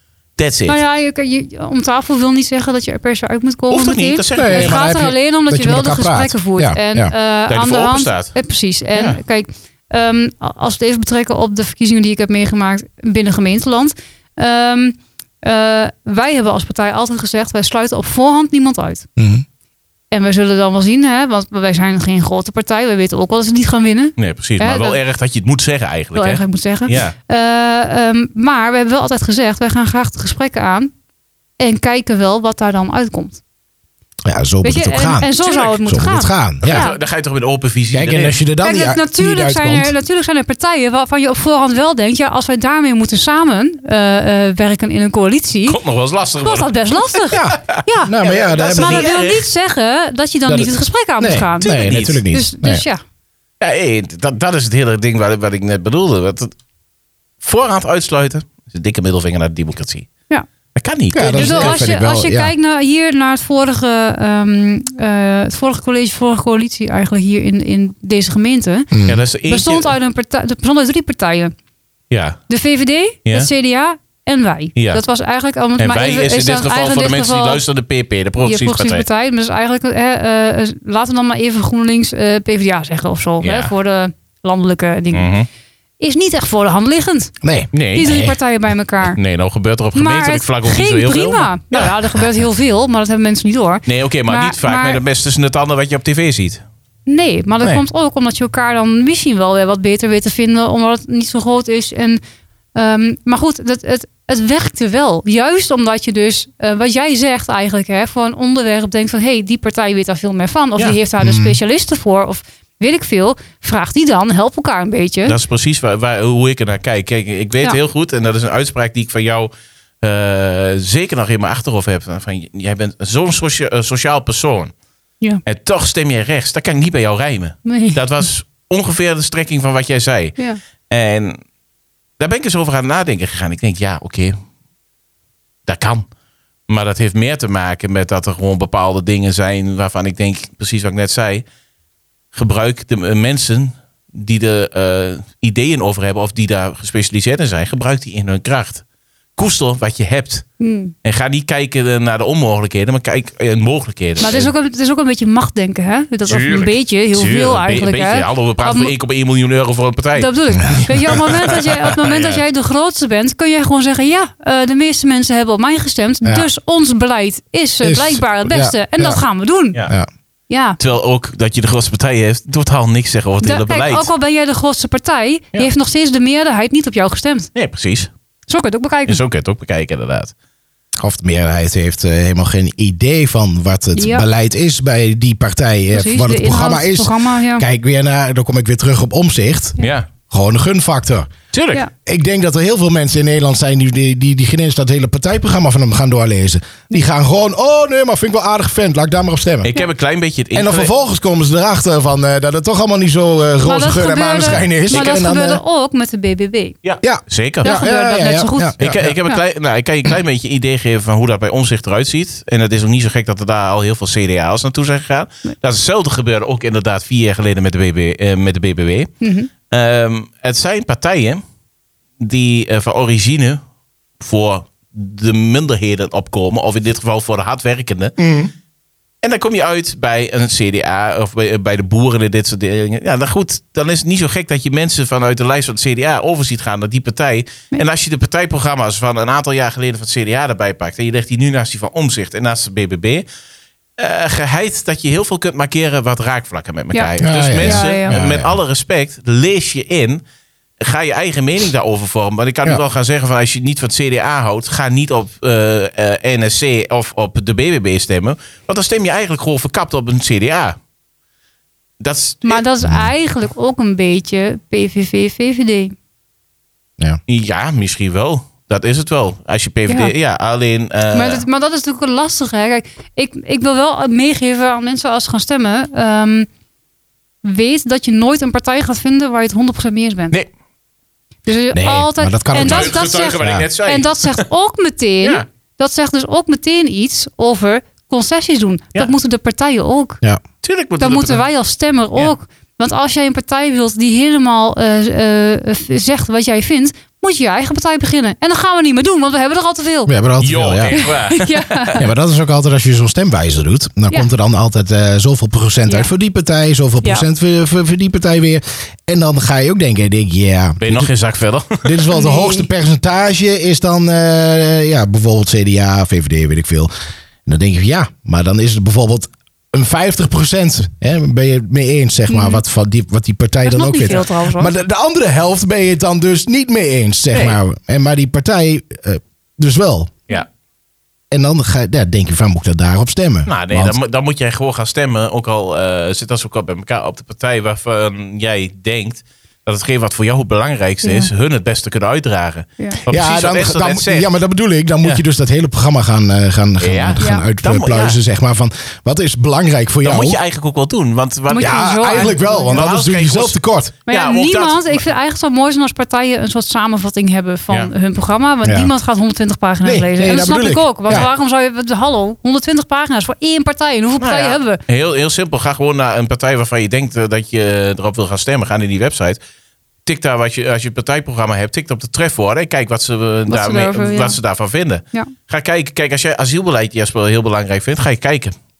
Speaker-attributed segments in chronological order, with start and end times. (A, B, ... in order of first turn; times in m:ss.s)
0:00.4-0:00.8 A
0:00.6-0:19.1 B
0:03.7-0:04.8 A
0:04.3-0:07.1 C
0:07.5-0:08.3 A
0:19.2-0:19.4 C
0:20.1-0:25.0 B
0:24.2-0:27.1 A
0:26.1-0:30.9 B
0:31.6-0:33.4 B
0:34.2-0:36.8 C
0:34.6-0:37.0 B
0:35.4-0:35.7 A
0:36.6-0:38.4 A
0:37.9-0:39.9 C
0:38.6-0:45.8 B
0:45.6-0:49.5 A
0:46.4-0:53.0 B
0:47.3-0:49.1 C
0:50.5-0:52.8 C
0:51.6-0:52.2 A
0:53.6-0:56.5 A
0:57.4-1:00.1 A
1:00.7-1:01.8 A
1:01.1-1:02.5 C
1:01.2-1:08.9 B
1:08.9-1:09.2 C
1:09.0-1:10.0 A
1:09.5-1:11.5 B
1:12.1-1:12.4 A
1:12.5-1:17.6 B
1:14.8-1:15.0 A
1:15.8-1:19.0 A
1:18.4-1:25.3 B
1:23.4-1:23.7 A
1:25.1-1:25.5 A
1:26.0-1:27.3 B
1:27.4-1:28.4 C
1:27.7-1:28.2 A
1:27.9-1:29.2 B
1:29.0-1:32.0 A
1:29.9-1:35.0 B
1:33.8-1:36.6 A
1:37.1-1:42.2 B
1:42.7-1:55.4 B
1:51.2-1:51.6 C
1:55.2-1:59.5 A
2:00.0-2:04.7 A
2:05.4-2:10.4 A
2:07.6-2:08.0 B
2:10.9-2:11.4 A
2:12.2-2:14.4 A
2:15.7-2:16.0 A
2:16.7-2:21.4 A
2:22.3-2:28.8 A
2:29.4-2:30.4 A
2:30.6-2:30.9 B
2:31.0-2:34.5 A
2:34.2-2:38.9 B
2:36.3-2:40.3 A
2:40.2-2:49.8 B
2:40.6-2:41.2 C
2:41.1-2:42.4 A
2:47.8-2:49.2 C
2:50.5-2:50.8 B
2:50.8-2:54.1 A
2:53.4-2:57.5 B
2:57.5-2:58.1 A
2:58.5-2:59.2 B
2:59.0-3:00.3 A
3:01.0-3:09.8 C
3:03.9-3:04.2 B
3:05.9-3:07.6 B
3:09.8-3:10.1 A
3:10.3-3:11.3 C
3:11.5-3:11.8 A
3:12.0-3:19.7 C
3:19.6-3:20.9 A
3:20.5-3:25.6 C
3:23.6-3:26.7 B
3:26.8-3:27.7 A
3:27.0-3:29.2 C
3:27.6-3:28.7 B
3:28.8-3:39.1 A
3:39.2-3:39.5 B
3:39.7-3:41.4 A
3:42.2-3:43.6 A
3:44.2-3:48.2 A
3:48.2-3:48.5 C
3:49.2-4:03.2 A
4:04.0-4:10.2 A
4:06.9-4:08.2 B
4:07.2-4:08.6 C
4:10.8-4:20.8 A
4:22.0-4:22.6 A
4:22.4-4:25.9 B
4:27.3-4:31.4 A
4:31.1-4:36.5 B
4:37.4-4:40.3 B
4:41.4-4:50.2 B
4:41.7-4:43.6 C
4:42.5-4:44.4 A
4:50.6-4:51.4 A
4:51.0-5:00.1 B
5:00.1-5:01.1 C
5:00.4-5:01.9 A
5:00.9-5:02.0 B
5:02.0-5:11.1 C
5:10.8-5:12.0 A
5:11.8-5:16.9 C
5:12.1-5:12.6 B
5:17.4-5:30.1 C
5:22.3-5:22.6 B
5:23.6-5:24.7 B
5:27.3-5:27.6 A
5:31.3-5:33.9 C
5:33.5-5:44.3 A
5:41.0-5:41.3 B
5:43.1-5:50.4 C
5:46.8-5:48.2 A
5:47.2-5:47.4 B
5:50.0-5:55.0 A
5:51.5-5:52.8 B
5:51.6-5:53.9 C
5:54.1-6:04.8 B
5:58.6-5:58.9 C
5:59.8-6:01.3 C
6:04.2-6:09.4 A
6:10.0-6:18.5 A
6:13.5-6:14.4 B